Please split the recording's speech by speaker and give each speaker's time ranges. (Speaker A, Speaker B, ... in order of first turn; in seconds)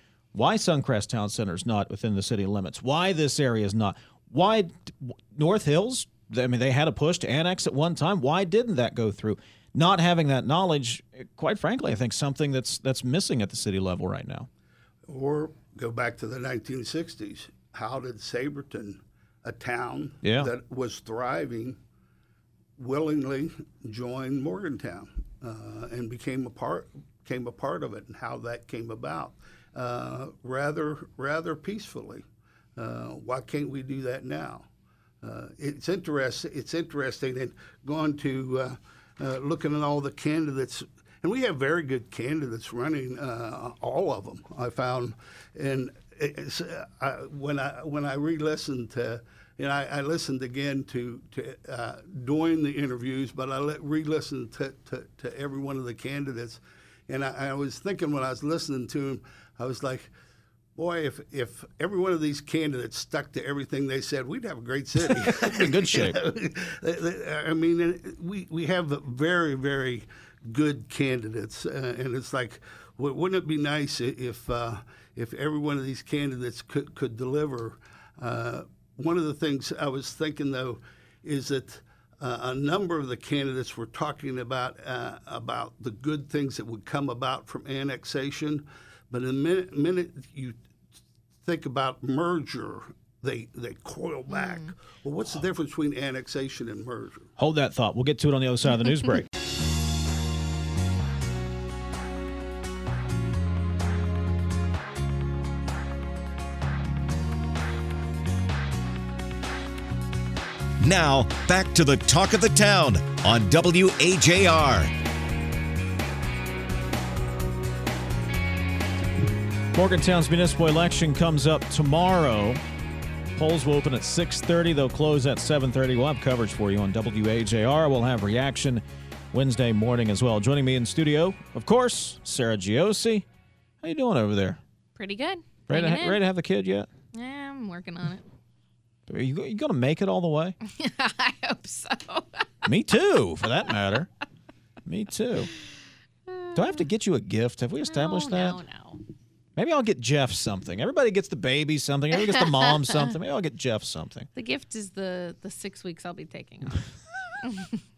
Speaker A: 0.3-14.5, 20.2-20.5, 65.2-66.2, 97.4-99.3, 119.7-122.6, 123.3-133.2, 133.8-134.6, 135.7-136.9, 139.1-140.6, 142.6-144.1, 144.8-145.5, 146.5-148.6, 149.6-154.3
Speaker B: 15.1-21.8, 22.8-32.2, 32.8-34.6, 35.2-60.1, 60.8-90.6, 91.4-97.3
Speaker C: 94.3-94.7, 134.9-136.2, 137.1-138.2, 140.6-142.5, 146.3-146.6, 147.9-149.0, 154.3-156.9, 157.4-157.8
Speaker D: 110.8-114.9